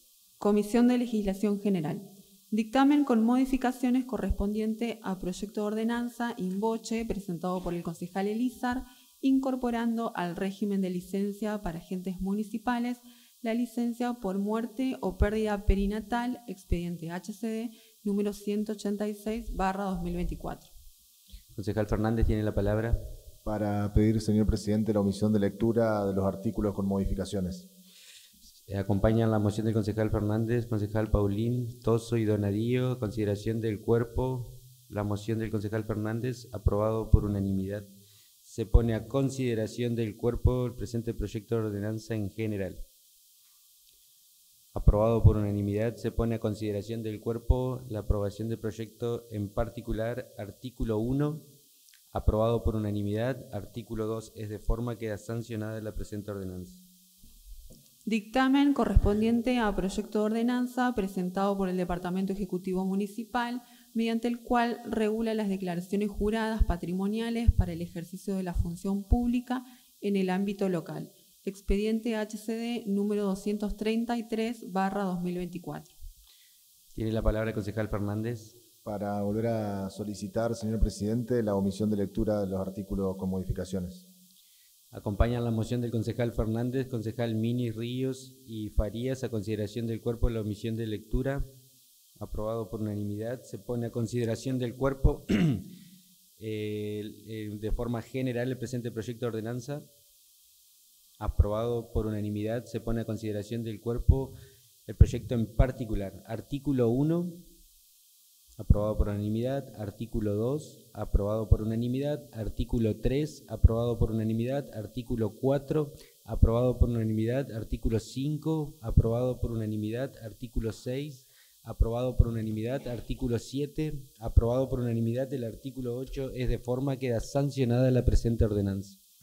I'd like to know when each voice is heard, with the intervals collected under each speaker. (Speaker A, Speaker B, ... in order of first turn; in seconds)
Speaker A: 0.4-20.7, 58.1-75.9
Speaker B: 21.6-23.0, 28.7-37.9, 38.5-42.8, 44.7-51.5, 52.1-56.8, 76.9-78.6, 84.9-91.5, 92.2-95.7, 96.4-99.9, 101.2-107.5, 108.6-129.0
Speaker C: 23.4-27.7, 78.8-84.1